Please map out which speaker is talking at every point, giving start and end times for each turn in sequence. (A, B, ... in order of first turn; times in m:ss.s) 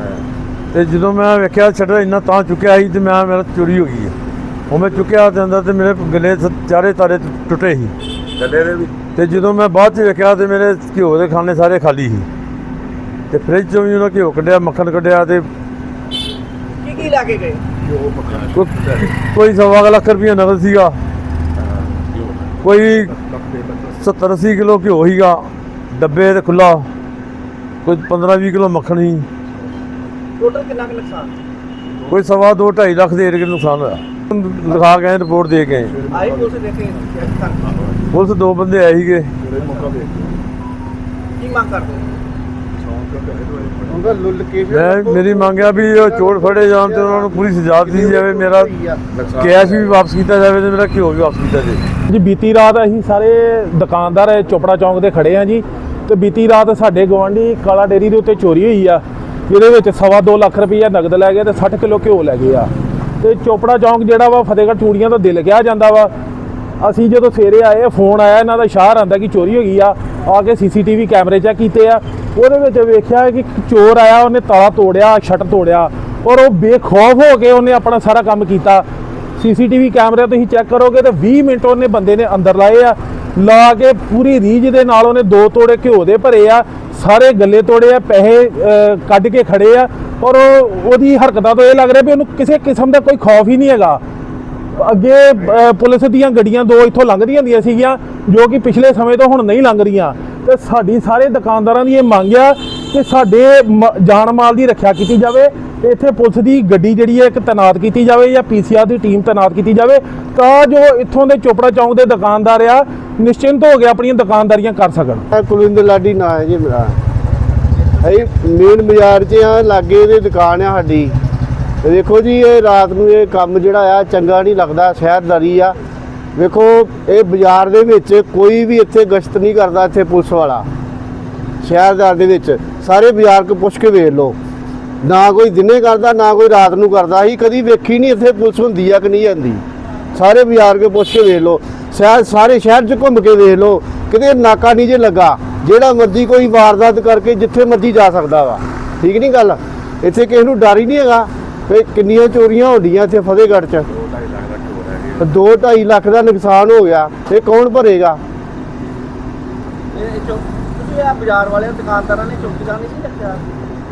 0:00.7-0:04.1 A
0:04.7-0:07.9 A
0:08.4-0:08.9 B
0:09.0-0:12.3 A
0:13.3-0:15.5 A
0:16.8-0:17.6 C
0:18.0-0:18.4 B
0:18.5-0:21.0 A
0:22.6-0:23.1 A
0:23.3-0:23.8 B
0:24.0-0:26.9 A
0:27.8-0:29.3 A
0:30.4-0:31.3 C
0:32.1-0:36.0 A
0:36.0-0:36.3 B
0:36.1-0:37.8 C
0:38.1-0:39.3 A
0:39.4-0:40.2 B
0:41.4-0:42.1 C
0:42.9-0:43.9 B
0:43.9-0:49.9 D
0:44.7-0:48.7 A
0:49.3-0:51.8 A
0:52.1-1:06.1 E
1:06.8-1:18.9 E
1:19.4-1:34.0 E
1:34.8-1:55.2 E
1:55.3-1:56.9 D
1:58.0-2:01.2 D
2:01.8-2:05.8 D
2:06.4-2:10.7 D
2:11.6-2:14.4 D
2:15.0-2:19.6 D
2:20.1-2:33.9 D
2:34.0-2:35.2 B
2:35.2-2:38.2 D
2:39.9-2:43.4 C